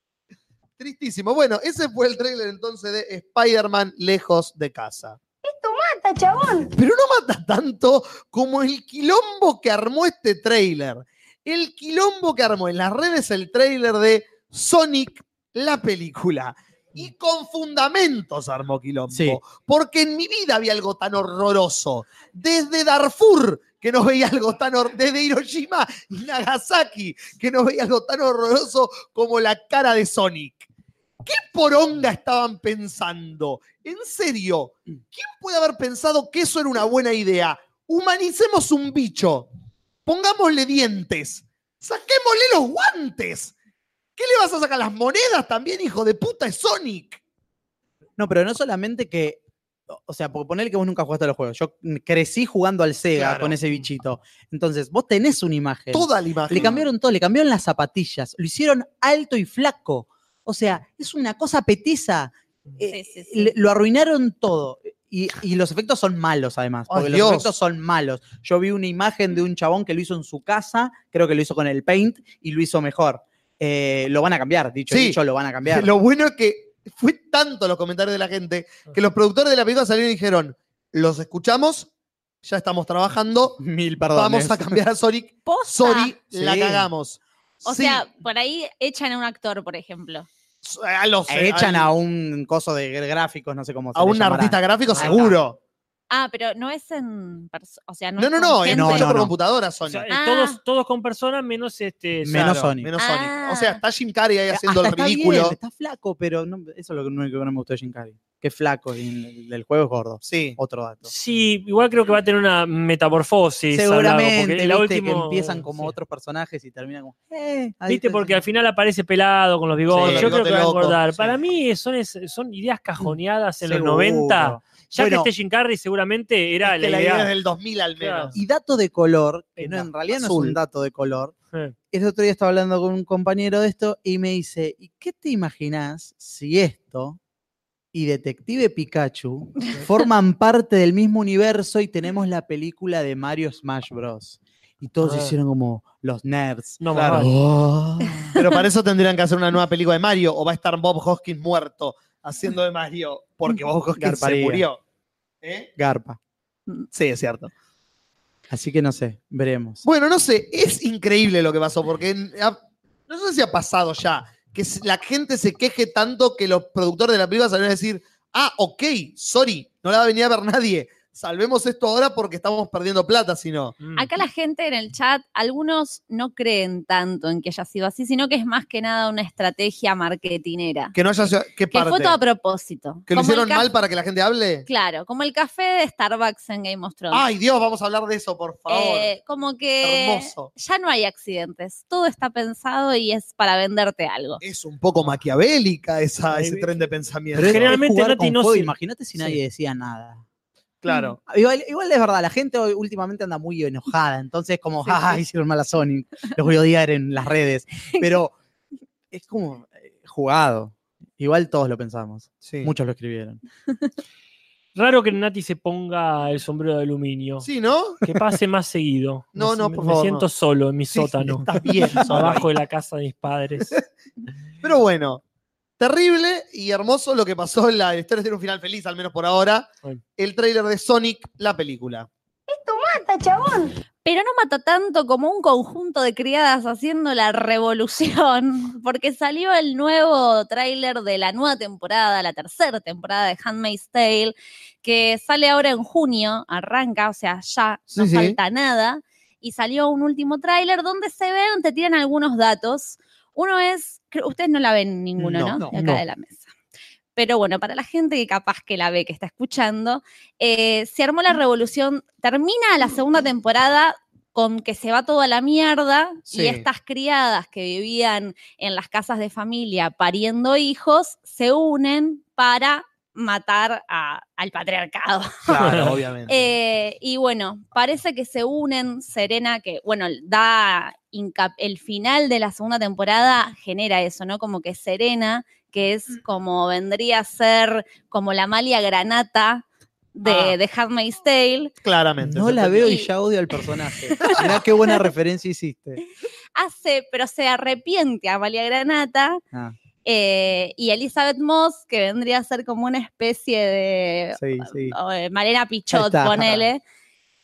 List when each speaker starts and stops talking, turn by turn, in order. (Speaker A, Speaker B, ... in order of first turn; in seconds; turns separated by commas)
Speaker A: 0.8-5.2, Speaker B: 5.4-6.7, Speaker A: 6.7-30.7, Speaker C: 19.1-19.4, Speaker A: 31.2-39.5, Speaker A: 40.0-43.5, Speaker A: 44.2-47.2, Speaker C: 48.2-75.9, Speaker A: 53.2-53.5, Speaker A: 55.9-56.8, Speaker D: 62.9-63.5, Speaker A: 66.9-67.5, Speaker A: 74.9-81.9, Speaker A: 82.4-83.6, Speaker C: 83.6-84.8, Speaker A: 84.1-88.0, Speaker D: 85.5-86.1, Speaker C: 86.3-86.9, Speaker D: 87.6-90.3, Speaker A: 90.6-91.9, Speaker C: 91.3-95.4, Speaker A: 93.9-95.6, Speaker D: 96.1-99.1, Speaker A: 98.2-100.1, Speaker C: 98.6-99.3, Speaker E: 99.8-102.6, Speaker D: 100.1-100.6, Speaker C: 102.2-102.9, Speaker A: 102.3-105.5, Speaker D: 103.0-103.8, Speaker C: 104.5-111.1, Speaker A: 110.2-110.6, Speaker E: 111.1-116.0, Speaker C: 113.7-118.4, Speaker E: 117.9-127.3, Speaker C: 119.9-120.4, Speaker A: 119.9-121.3, Speaker C: 123.0-125.3, Speaker A: 126.6-128.3, Speaker E: 128.0-128.3, Speaker C: 128.3-131.3, Speaker E: 129.6-129.9, Speaker A: 130.1-130.6, Speaker C: 131.9-137.2, Speaker C: 137.9-148.3, Speaker E: 145.0-145.3, Speaker E: 146.8-147.3, Speaker A: 146.9-147.4, Speaker A: 148.3-154.8, Speaker C: 153.9-154.7, Speaker A: 155.4-155.7, Speaker C: 155.8-156.2, Speaker A: 156.9-157.5, Speaker C: 158.5-159.8, Speaker A: 159.8-173.8, Speaker E: 173.8-174.1, Speaker D: 173.9-180.9, Speaker A: 180.9-182.2, Speaker D: 181.7-183.7, Speaker A: 183.1-184.7, Speaker D: 184.7-187.2, Speaker A: 187.1-189.1, Speaker D: 188.7-194.4, Speaker A: 189.8-190.5, Speaker A: 194.4-197.8, Speaker E: 196.3-199.4, Speaker C: 197.3-200.2, Speaker A: 200.8-201.2, Speaker C: 201.2-208.3, Speaker C: 209.1-213.4, Speaker A: 212.4-212.7, Speaker E: 214.7-217.5, Speaker A: 217.4-218.0, Speaker E: 218.0-223.8, Speaker A: 219.3-220.2, Speaker A: 220.9-222.5, Speaker A: 224.6-225.2, Speaker A: 225.8-232.1, Speaker B: 232.5-233.7, Speaker D: 234.0-256.5, Speaker A: 247.9-248.4, Speaker A: 255.2-256.0, Speaker D: 257.1-275.5, Speaker A: 266.3-266.6, Speaker A: 275.4-276.4, Speaker E: 275.6-275.9, Speaker D: 276.3-291.7, Speaker A: 290.2-290.5, Speaker A: 291.8-292.9, Speaker C: 292.2-296.0, Speaker D: 292.8-293.1, Speaker D: 296.6-299.4, Speaker D: 300.0-306.8, Speaker C: 304.4-304.9, Speaker C: 305.9-306.7